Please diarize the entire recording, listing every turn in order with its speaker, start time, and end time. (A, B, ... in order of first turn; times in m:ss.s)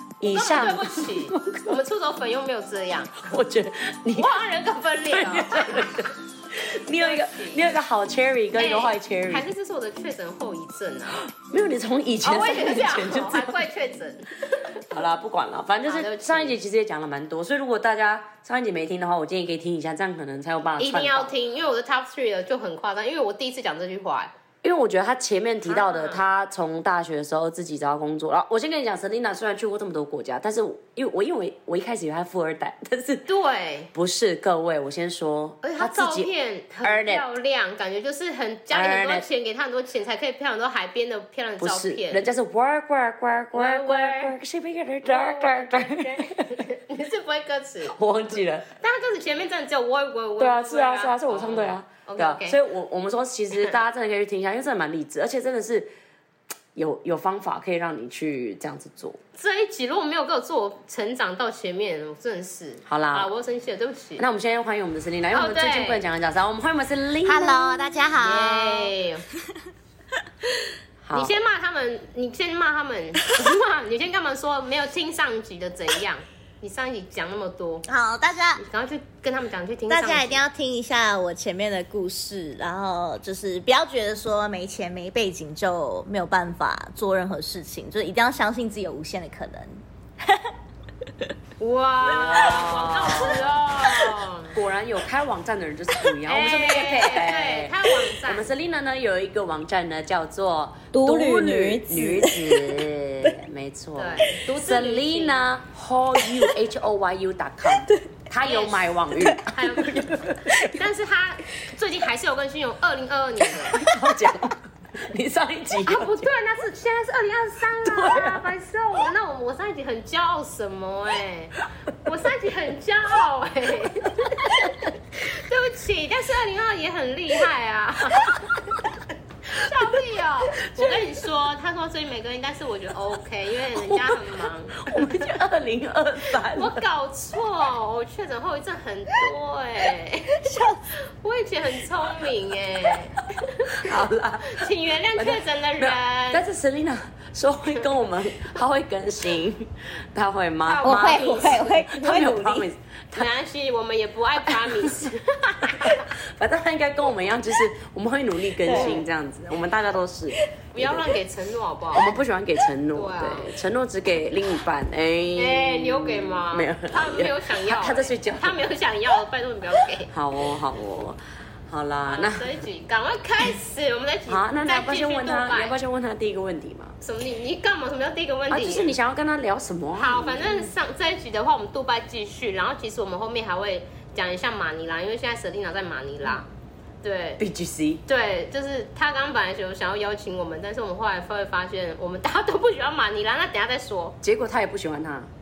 0:00.2-0:01.7 A
0:00.2-0:03.4 B
0:03.2-0:04.4 A
0:04.1-0:06.1 B
0:05.1-0:09.5 A
0:06.9-0:07.7 B
0:08.6-0:11.3 B
0:11.3-0:13.6 A
0:12.2-0:14.8 B
0:14.9-0:21.3 A
0:15.8-0:16.5 B
0:20.8-0:24.3 B
0:24.6-0:33.3 A
0:25.6-0:26.2 B
0:33.3-0:33.9 B
0:33.9-0:36.3 A
0:35.6-0:42.2 B
0:36.8-0:37.2 A
0:38.7-0:39.2 A
0:41.6-0:46.7 A
0:43.5-0:44.3 B
0:45.0-0:48.0 B
0:47.9-0:48.7 A
0:48.8-0:52.6 B
0:50.4-0:55.9 A
0:56.7-0:59.2 A
0:59.4-1:04.2 B
1:02.9-1:03.3 A
1:04.2-1:07.8 A
1:05.3-1:06.0 B
1:07.2-1:09.6 C
1:08.1-1:09.2 B
1:11.0-1:11.3 A
1:11.1-1:17.8 B
1:17.9-1:18.6 C
1:18.6-1:20.4 B
1:19.9-1:30.5 C
1:31.6-1:34.6 B
1:32.2-1:33.5 A
1:34.5-1:50.7 A
1:36.2-1:38.5 B
1:40.9-1:43.3 C
1:44.0-1:45.4 B
1:46.2-1:46.5 C
1:47.6-1:48.0 C
1:48.4-1:50.2 B
1:49.2-1:49.5 C
1:50.7-1:53.8 B
1:53.7-1:56.3 A
1:55.8-2:08.8 B
1:57.8-1:58.5 A
2:09.5-2:15.3 B
2:10.6-2:11.1 A
2:13.7-2:16.8 A
2:16.5-2:26.4 B
2:20.4-2:20.8 C
2:23.8-2:33.3 A
2:30.6-2:31.7 B
2:30.8-2:32.7 C
2:33.1-2:36.1 B
2:35.8-2:41.0 A
2:38.6-2:39.0 C
2:38.6-2:39.1 B
2:40.7-2:42.2 B
2:41.9-2:48.6 A
2:42.9-2:43.5 B
2:45.4-2:50.1 B
2:50.1-2:52.6 A
2:52.1-2:55.7 B
2:54.3-2:57.0 A
2:57.0-2:58.9 B
2:58.5-3:00.6 A
3:00.0-3:06.4 B
3:07.0-3:07.4 B
3:07.4-3:08.0 A
3:08.1-3:14.2 B
3:14.2-3:15.3 A